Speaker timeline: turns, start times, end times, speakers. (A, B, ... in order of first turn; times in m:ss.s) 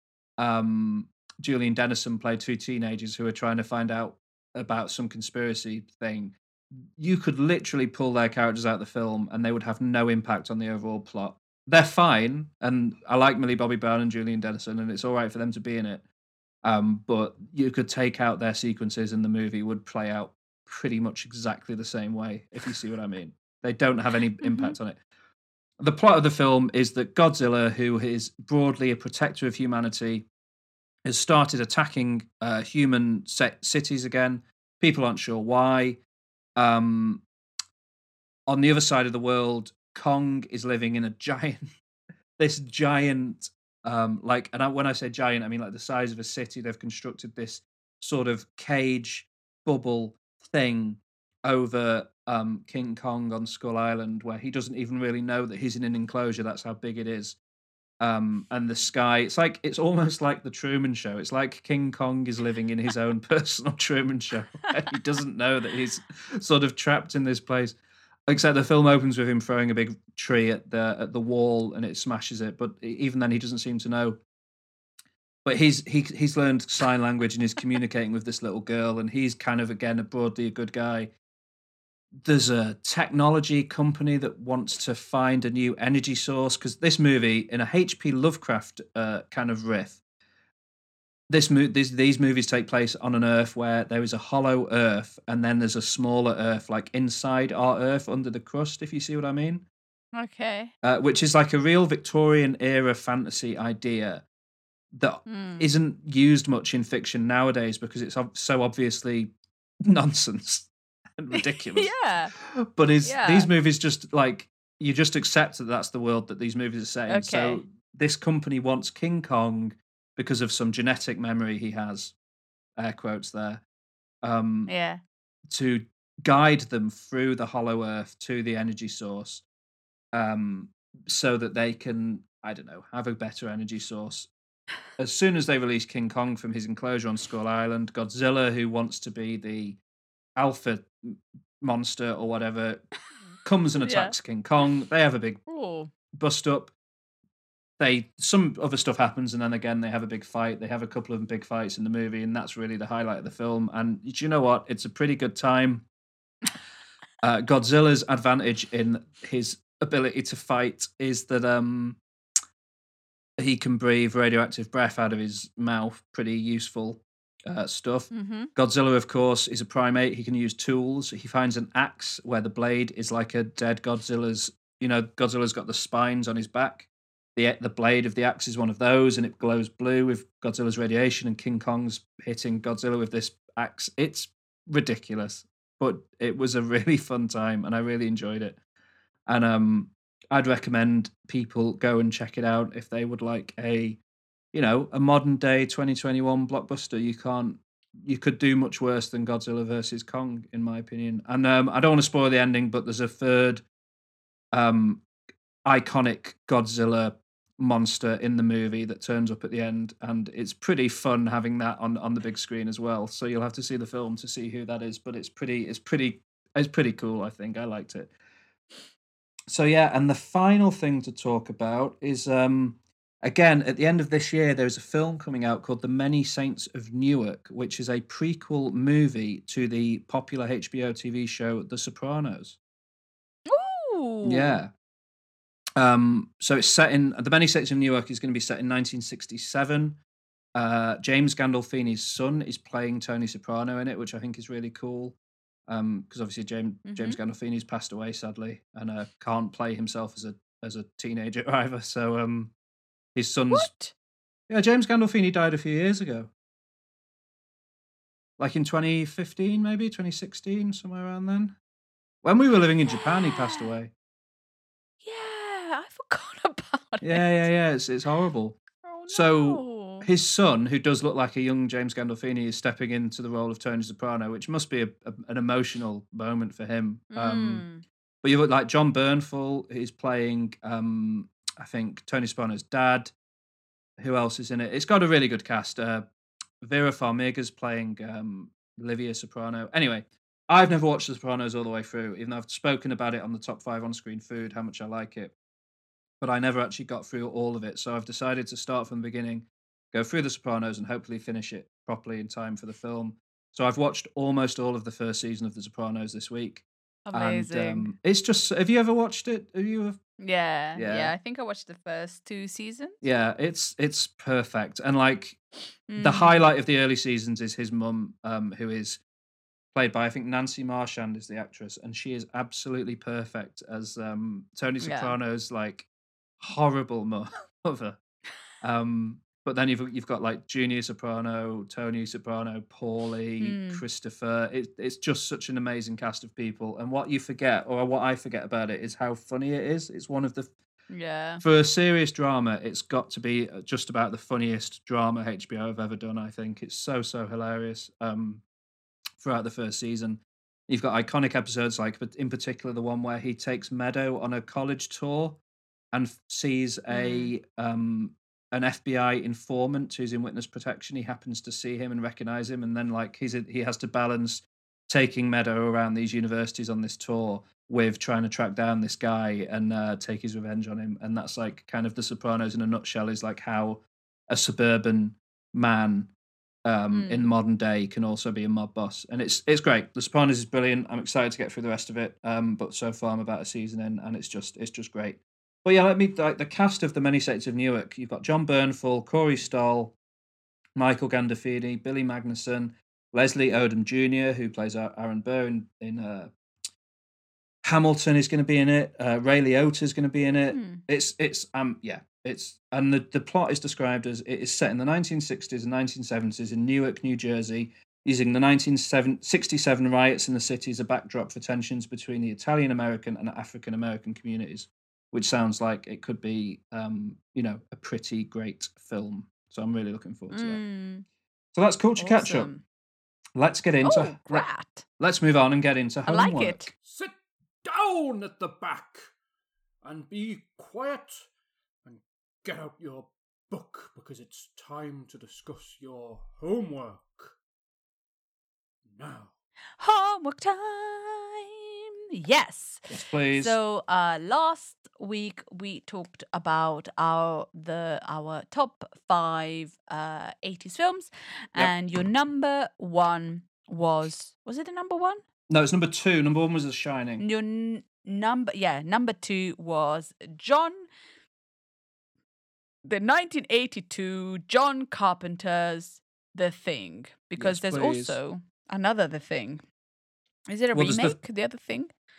0:00.4-0:16.0 A
0:16.6-0:25.0 A
0:24.4-0:24.8 B
0:25.8-0:30.3 A
0:31.0-0:36.0 A
0:36.6-0:37.2 A
0:38.5-0:41.7 A
0:42.4-0:57.4 A
0:58.0-1:14.2 A
1:15.4-1:21.1 A
1:22.2-1:30.0 A
1:31.3-1:39.6 A
1:40.2-1:40.7 B
1:40.8-1:44.2 A
1:44.9-1:49.3 A
1:45.3-1:45.7 B
1:49.8-2:02.2 A
1:51.3-1:52.3 B
1:53.0-1:53.5 B
1:57.1-1:57.6 B
2:02.8-2:03.6 A
2:04.2-2:04.7 A
2:04.7-2:05.0 B
2:05.5-2:09.4 A
2:10.1-2:14.3 A
2:15.0-2:19.8 A
2:20.4-2:22.8 A
2:23.4-2:25.4 A
2:23.8-2:24.2 B
2:25.5-2:25.9 B
2:26.1-2:26.7 A
2:27.8-2:35.9 A
2:37.2-2:42.0 A
2:43.4-3:08.6 A
2:48.1-2:48.5 B
3:09.3-3:14.0 A
3:14.5-3:23.6 A
3:24.5-3:25.0 A
3:25.6-3:38.1 A
3:39.5-3:52.6 A
3:53.5-3:54.6 B
3:54.2-3:54.7 A
3:55.8-4:00.0 A
4:00.6-4:05.2 A
4:05.7-4:12.5 A
4:06.9-4:07.2 B
4:13.2-4:13.7 A
4:13.5-4:13.9 B
4:14.5-4:16.3 A
4:18.4-4:21.6 A
4:22.2-4:23.9 A
4:22.9-4:23.7 B
4:25.0-4:27.4 B
4:27.0-4:37.6 A
4:28.8-4:30.1 B
4:37.1-4:37.8 B
4:38.2-4:43.1 A
4:44.0-4:46.1 A
4:46.6-4:55.3 A
4:56.2-5:10.0 A
5:07.1-5:07.9 B
5:10.2-5:13.0 B
5:10.8-5:11.1 A
5:13.0-5:15.4 A
5:15.9-5:16.5 B
5:16.0-5:19.0 A
5:19.7-5:25.9 A
5:24.8-5:25.2 B
5:26.4-5:28.0 A
5:28.6-5:40.5 A
5:33.4-5:33.8 B
5:40.9-5:41.4 B
5:41.4-5:48.4 A
5:49.2-5:55.4 A
5:55.9-6:16.1 A
5:56.9-5:57.3 B
6:16.6-6:30.0 A
6:16.9-6:17.3 B
6:30.8-6:36.3 A
6:37.6-7:00.6 A
6:40.5-6:40.8 B
7:00.3-7:01.0 B
7:01.5-7:02.5 A
7:02.0-7:02.6 B
7:03.4-7:04.5 A
7:03.8-7:04.8 B
7:05.0-7:06.6 A
7:06.1-7:06.7 B
7:06.8-7:09.1 C
7:09.8-7:11.3 C
7:11.8-7:17.4 C
7:18.9-7:19.3 C
7:19.8-7:35.2 B
7:22.9-7:23.6 A
7:35.5-7:37.2 A
7:37.2-7:40.9 B
7:42.8-7:49.6 B
7:47.4-7:48.2 A
7:50.5-7:51.9 B
7:50.7-7:51.2 A